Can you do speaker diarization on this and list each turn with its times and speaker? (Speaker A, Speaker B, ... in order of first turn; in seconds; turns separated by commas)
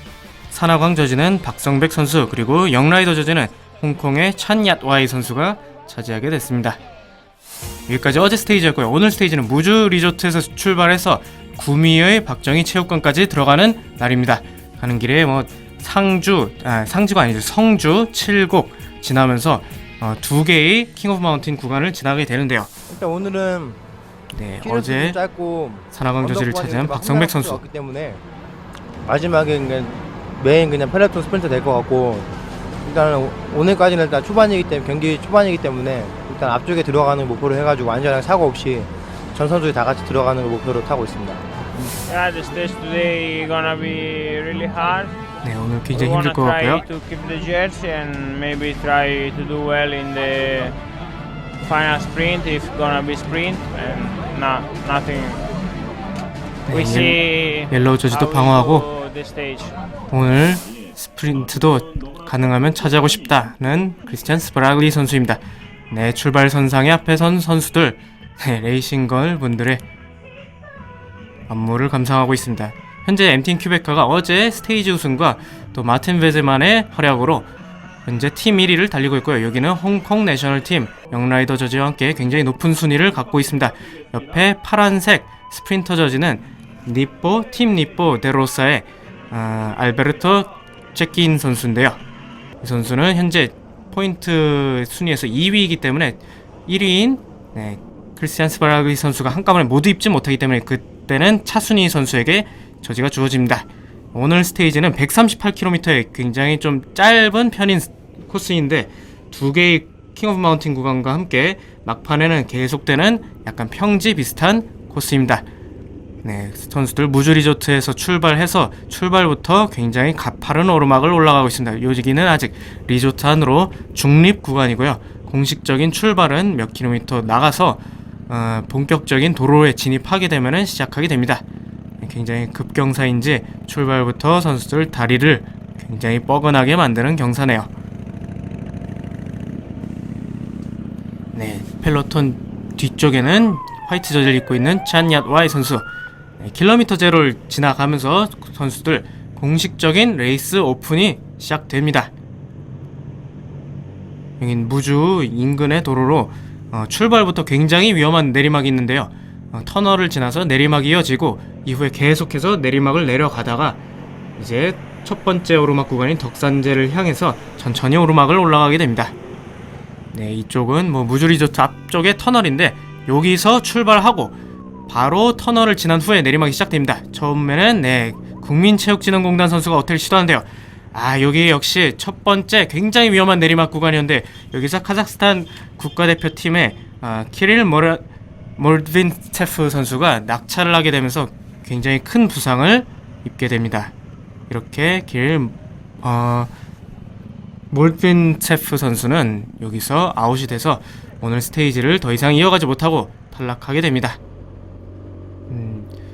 Speaker A: 0.5-6.8, Speaker A: 7.9-22.7, Speaker B: 22.9-23.8, Speaker A: 24.3-25.2, Speaker B: 24.6-28.2, Speaker A: 25.9-27.6, Speaker B: 29.0-41.5, Speaker C: 42.0-45.1, Speaker A: 45.4-46.8, Speaker C: 45.9-50.8, Speaker C: 51.6-55.5, Speaker A: 56.6-58.8, Speaker C: 56.7-59.8, Speaker A: 60.1-69.8, Speaker A: 71.5-77.5, Speaker A: 78.0-92.0, Speaker A: 92.6-115.4, Speaker A: 116.2-131.4, Speaker A: 132.0-137.7, Speaker A: 141.3-145.8, Speaker A: 146.4-152.1, Speaker A: 154.4-163.8, Speaker A: 164.4-169.1, Speaker A: 170.1-174.3, Speaker A: 174.9-188.0, Speaker A: 188.6-193.9, Speaker A: 194.5-196.5, Speaker A: 197.7-204.2, Speaker A: 205.5-205.9